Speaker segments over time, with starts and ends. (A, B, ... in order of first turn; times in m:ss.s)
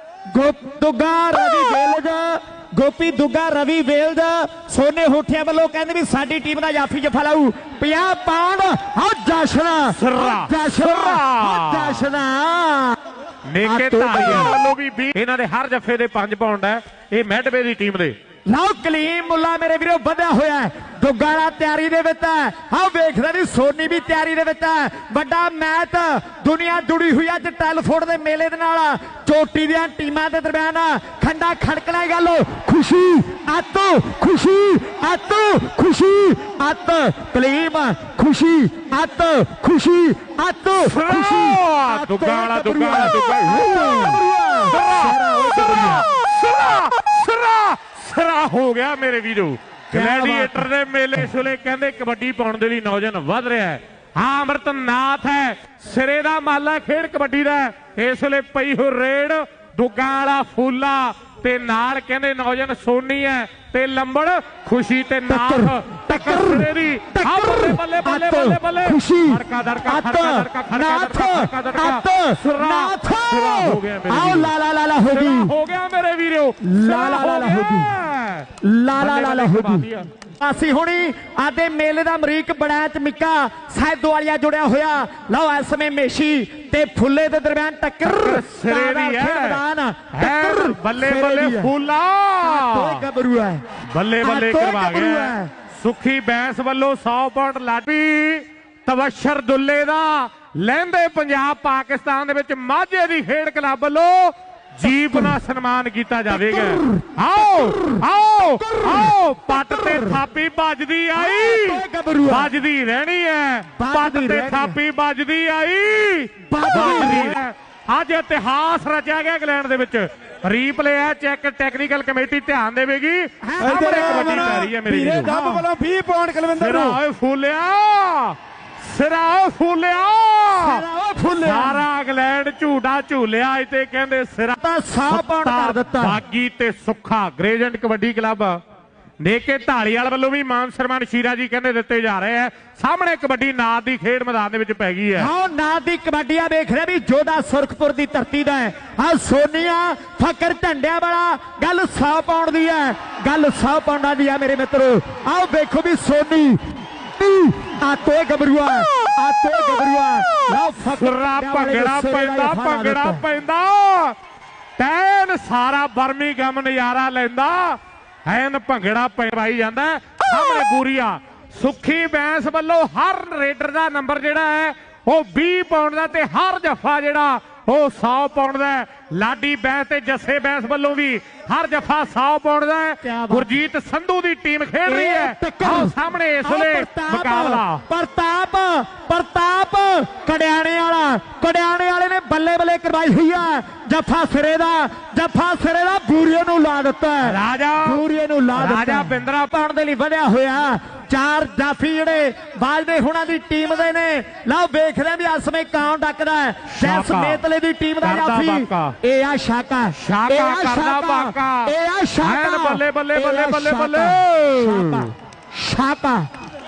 0:00.3-0:13.0 A
0:09.9-0:12.1 B
0:13.5-0:18.2 B
0:13.6-0:14.6 A
0:18.5-0:46.1 A
0:40.8-1:14.5 B
0:49.9-0:50.7 A
1:05.3-1:15.5 A
1:15.1-1:20.1 B
1:16.6-1:18.0 A
1:18.6-1:31.7 A
1:28.0-1:29.6 B
1:30.1-1:33.0 B
1:32.4-1:33.6 A
1:33.8-2:05.3 B
1:34.2-1:35.5 A
1:45.0-1:45.4 A
1:46.3-1:50.2 A
1:51.2-1:52.5 A
1:53.8-1:54.8 A
1:56.5-1:57.4 A
2:03.4-2:04.7 A
2:03.6-2:07.0 C
2:05.2-2:05.7 A
2:06.5-2:10.8 B
2:10.6-2:11.8 A
2:11.4-2:18.6 B
2:14.6-2:16.2 A
2:19.2-2:25.3 B
2:25.2-2:43.2 A
2:40.9-2:44.2 B
2:44.8-3:07.8 B
3:03.0-3:03.6 A
3:04.9-3:36.3 A
3:17.2-3:18.0 B
3:18.5-3:19.5 B
3:26.7-3:27.4 B
3:28.0-3:29.0 B
3:29.9-3:35.1 B